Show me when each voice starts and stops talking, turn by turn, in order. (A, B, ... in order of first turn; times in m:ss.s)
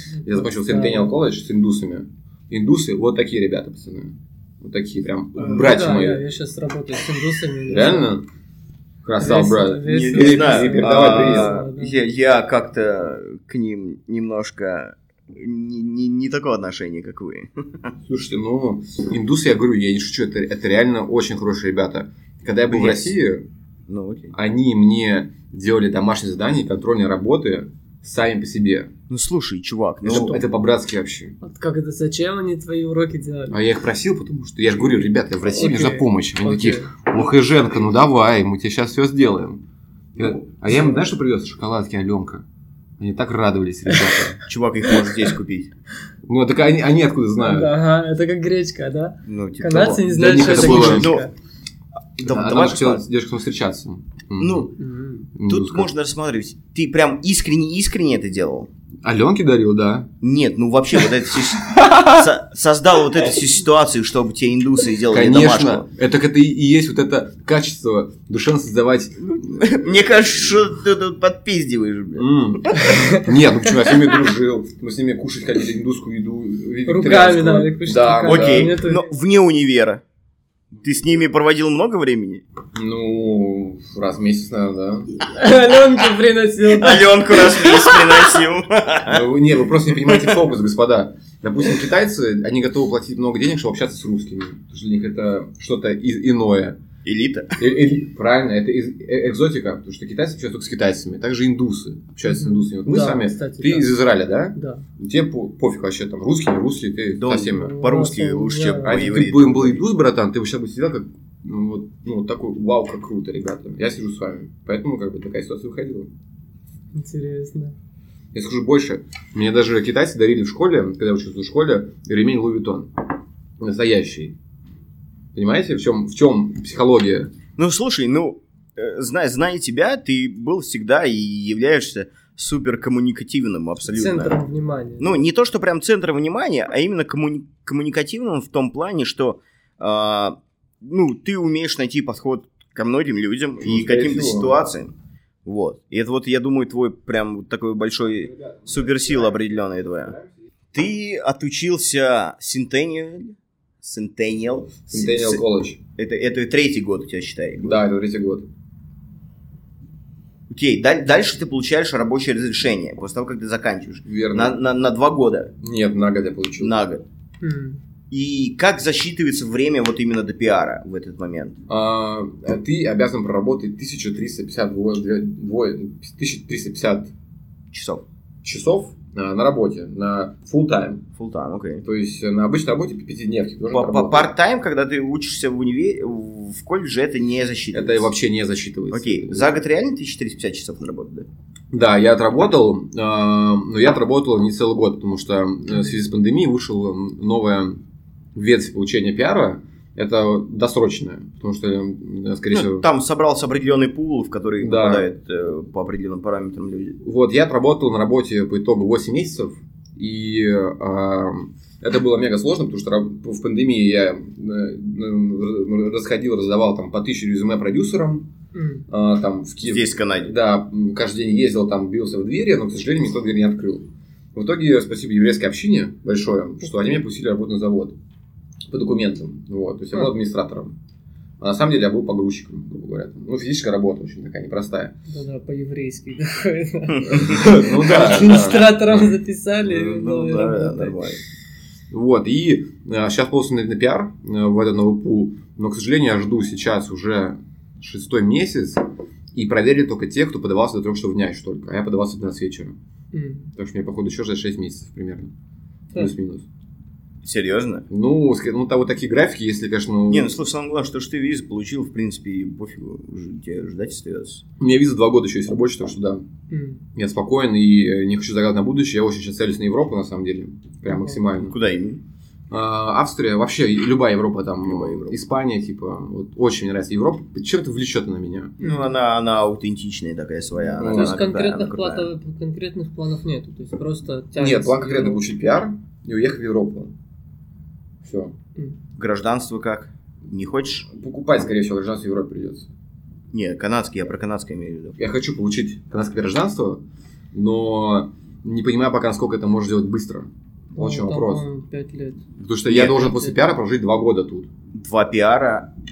0:00.2-0:06.2 A
0:00.3-0:01.1 B
0:05.4-0:08.1 B
0:07.6-0:08.2 A
0:09.0-0:11.6 A
0:09.2-0:12.0 B
0:09.8-0:17.9 C
0:18.0-0:23.4 A
0:22.7-0:23.2 C
0:23.9-0:24.3 C
0:24.3-0:28.9 A
0:29.1-0:30.4 C
0:30.0-0:31.4 A
0:30.1-0:30.4 B
0:31.4-0:33.6 B
0:33.5-0:39.6 A
0:35.5-0:36.9 B
0:40.2-0:42.4 A
0:43.0-0:44.4 A
0:44.4-0:45.7 C
0:46.3-0:47.7 A
0:47.4-0:51.3 B
0:49.2-0:51.3 C
0:50.1-0:51.2 A
0:52.2-0:53.0 C
0:52.2-0:54.7 A
0:54.4-0:54.7 C
0:54.8-0:55.3 B
0:55.3-0:55.9 A
0:55.4-0:58.7 C
0:59.0-1:00.1 A
1:00.2-1:05.9 C
1:01.5-1:02.2 A
1:05.1-1:10.2 A
1:09.3-1:12.9 C
1:12.2-1:18.8 A
1:12.7-1:13.3 B
1:16.8-1:19.1 B
1:18.2-1:20.0 C
1:20.8-1:22.4 C
1:22.7-1:25.1 A
1:25.3-1:28.3 B
1:26.6-1:29.3 C
1:29.1-1:36.8 A
1:29.9-1:30.4 C
1:37.0-1:37.6 C
1:37.6-1:47.8 A
1:42.2-1:43.9 B
1:44.5-1:44.8 B
1:47.2-1:49.9 C
1:47.4-1:49.2 B
1:48.8-1:56.1 A
1:56.9-1:57.7 B
1:58.3-2:02.9 A
2:03.6-2:04.3 A
2:05.3-2:07.3 A
2:07.6-2:14.4 C
2:13.9-2:15.2 B
2:15.0-2:24.9 C
2:23.6-2:24.7 A
2:25.4-2:30.2 C
2:28.4-2:29.4 A
2:30.7-2:35.4 C
2:34.9-2:35.8 A
2:36.0-2:37.8 C
2:37.6-2:38.5 A
2:40.5-2:45.5 C
2:44.0-2:44.6 A
2:45.6-2:46.7 A
2:46.6-2:47.0 C
2:47.4-2:47.8 B
2:48.1-2:51.6 C
2:51.7-2:57.1 A
2:57.7-2:58.0 C
2:58.4-3:01.0 A
3:01.2-3:01.8 C
3:01.8-3:04.3 A
3:03.7-3:08.1 C
3:07.7-3:09.6 A
3:08.9-3:11.3 C
3:11.7-3:17.8 A
3:18.3-3:22.8 A
3:22.5-3:27.0 C
3:24.6-3:25.1 A
3:27.0-3:38.3 A
3:38.5-3:38.8 B
3:38.9-3:48.0 A
3:39.6-3:40.3 C
3:48.7-3:50.8 A
3:51.4-3:55.0 A
3:55.1-4:01.0 B
3:57.0-3:59.1 A
3:57.1-3:57.4 C
3:59.6-4:01.2 C
4:01.9-4:08.8 A
4:09.3-4:12.8 A
4:13.1-4:13.5 B
4:13.6-4:15.3 A
4:15.9-4:16.4 A
4:17.2-4:17.9 C
4:17.9-4:20.3 A
4:20.1-4:24.4 C
4:24.6-4:26.2 A
4:26.5-4:26.8 B
4:26.9-4:31.6 A
4:30.9-4:31.2 B
4:31.3-4:32.0 C
4:32.5-4:38.6 A
4:34.6-4:35.2 C
4:38.6-4:38.9 B
4:38.6-4:42.1 C
4:40.7-4:41.2 A
4:40.9-4:45.2 B
4:44.4-4:46.9 A
4:48.0-4:48.3 A
4:49.0-4:50.9 C
4:50.9-4:52.7 A
4:53.3-4:55.0 C
4:55.0-5:01.4 A
5:00.7-5:02.2 B
5:02.4-5:04.5 A
5:02.6-5:03.1 C
5:03.0-5:03.3 B
5:04.7-5:05.7 C